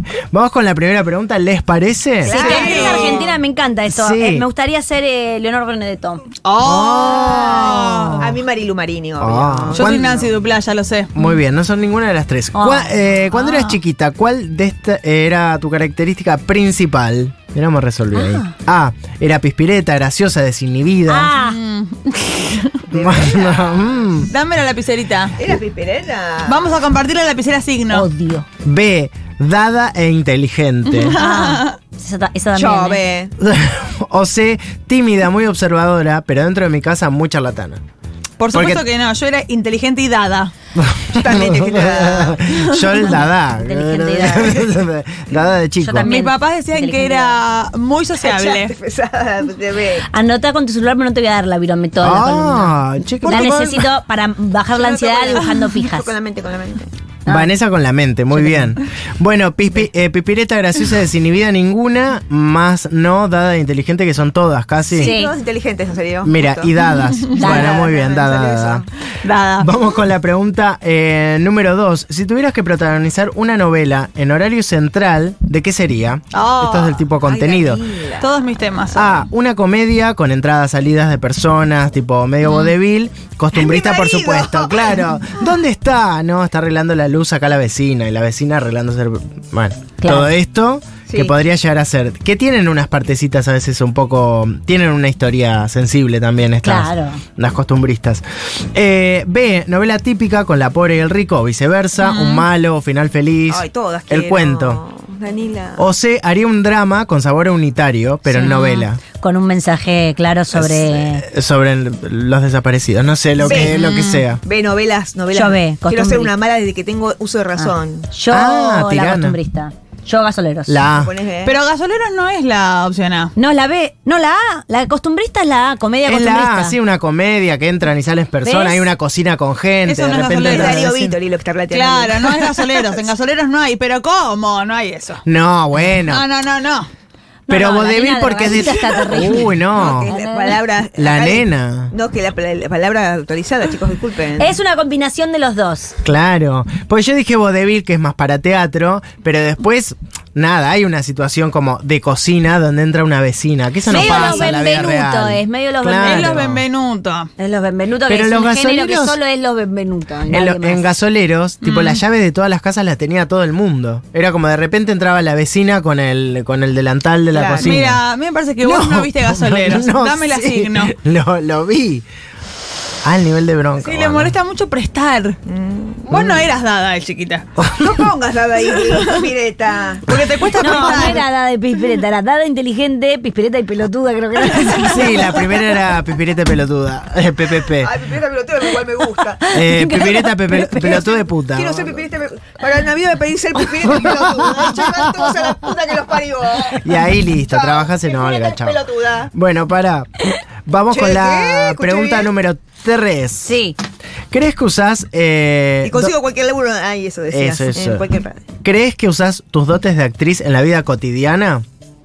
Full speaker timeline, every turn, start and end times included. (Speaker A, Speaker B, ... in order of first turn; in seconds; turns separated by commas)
Speaker A: 0.3-2.5, Speaker B: 2.2-6.2, Speaker C: 2.2-3.4, Speaker D: 2.3-3.3, Speaker A: 3.9-4.5, Speaker D: 6.4-8.3, Speaker A: 6.6-8.3, Speaker C: 7.1-10.3, Speaker A: 9.2-10.1, Speaker D: 9.7-11.1, Speaker A: 11.1-21.3, Speaker B: 12.5-13.0, Speaker D: 13.3-13.8, Speaker B: 18.1-18.5, Speaker B: 21.1-21.6, Speaker D: 21.3-22.8, Speaker A: 22.9-24.3, Speaker C: 22.9-23.4, Speaker D: 24.3-25.4, Speaker C: 25.4-26.8, Speaker D: 26.4-28.1, Speaker B: 27.9-28.4, Speaker A: 28.6-31.1, Speaker D: 30.9-31.8, Speaker B: 31.1-33.0, Speaker C: 32.5-33.3, Speaker A: 33.4-37.8, Speaker D: 38.4-40.5, Speaker A: 38.5-38.8, Speaker A: 40.7-46.1, Speaker C: 41.1-42.4, Speaker D: 42.6-42.9, Speaker B: 43.0-44.7, Speaker B: 45.8-47.4, Speaker D: 46.0-48.7, Speaker C: 48.2-50.0, Speaker B: 50.1-56.1, Speaker A: 52.0-53.9, Speaker C: 54.7-56.9, Speaker B: 57.2-57.5, Speaker A: 57.3-65.1, Speaker B: 58.3-58.8, Speaker C: 64.9-66.7, Speaker B: 64.9-65.3, Speaker A: 66.2-68.8, Speaker C: 67.3-68.9, Speaker B: 67.4-67.7, Speaker D: 69.2-69.7, Speaker A: 69.6-77.8, Speaker D: 76.3-77.0, Speaker C: 77.2-78.5, Speaker D: 78.2-79.3, Speaker A: 78.9-104.8, Speaker C: 83.5-85.5, Speaker B: 90.0-90.3, Speaker C: 91.1-91.3, Speaker B: 96.6-97.2, Speaker D: 102.0-102.5, Speaker C: 103.5-105.9, Speaker A: 105.8-109.0, Speaker B: 108.3-111.2, Speaker A: 110.5-114.4, Speaker C: 113.4-113.7, Speaker D: 113.5-114.2, Speaker C: 114.4-118.1, Speaker B: 115.3-116.3, Speaker B: 117.6-120.8, Speaker A: 118.3-119.4, Speaker A: 120.7-121.1, Speaker C: 121.0-121.5, Speaker D: 121.4-123.3, Speaker B: 123.3-126.8, Speaker A: 126.0-131.2, Speaker B: 128.4-128.9, Speaker D: 129.8-130.8, Speaker C: 130.2-132.7, Speaker D: 131.7-135.2, Speaker A: 135.2-136.2, Speaker D: 136.0-136.9, Speaker B: 137.5-140.6, Speaker A: 137.5-140.1, Speaker C: 139.7-144.5, Speaker A: 141.0-141.9, Speaker B: 144.4-145.9, Speaker A: 146.0-156.6, Speaker D: 153.9-154.5, Speaker B: 153.9-156.3, Speaker D: 156.0-157.3, Speaker B: 157.4-160.9, Speaker A: 158.1-159.2, Speaker A: 160.3-168.0, Speaker D: 161.6-162.0, Speaker C: 167.3-167.7, Speaker D: 167.6-170.9, Speaker A: 168.6-172.0, Speaker A: 173.0-174.3, Speaker D: 173.8-175.4, Speaker C: 175.5-176.2, Speaker D: 176.1-177.4, Speaker A: 176.1-176.5, Speaker A: 177.6-178.0, Speaker C: 177.6-180.1, Speaker D: 178.9-179.2, Speaker D: 180.1-181.2, Speaker B: 180.6-185.2, Speaker A: 184.7-187.9, Speaker C: 187.8-189.5, Speaker B: 189.4-191.2, Speaker A: 189.5-192.0, Speaker C: 191.5-199.3, Speaker A: 196.8-198.8, Speaker A: 199.3-200.1, Speaker A: 200.7-203.5, Speaker C: 200.9-202.3, Speaker B: 203.4-203.8, Speaker A: 204.3-206.1, Speaker C: 205.8-208.4, Speaker A: 207.3-208.0, Speaker A: 208.6-211.6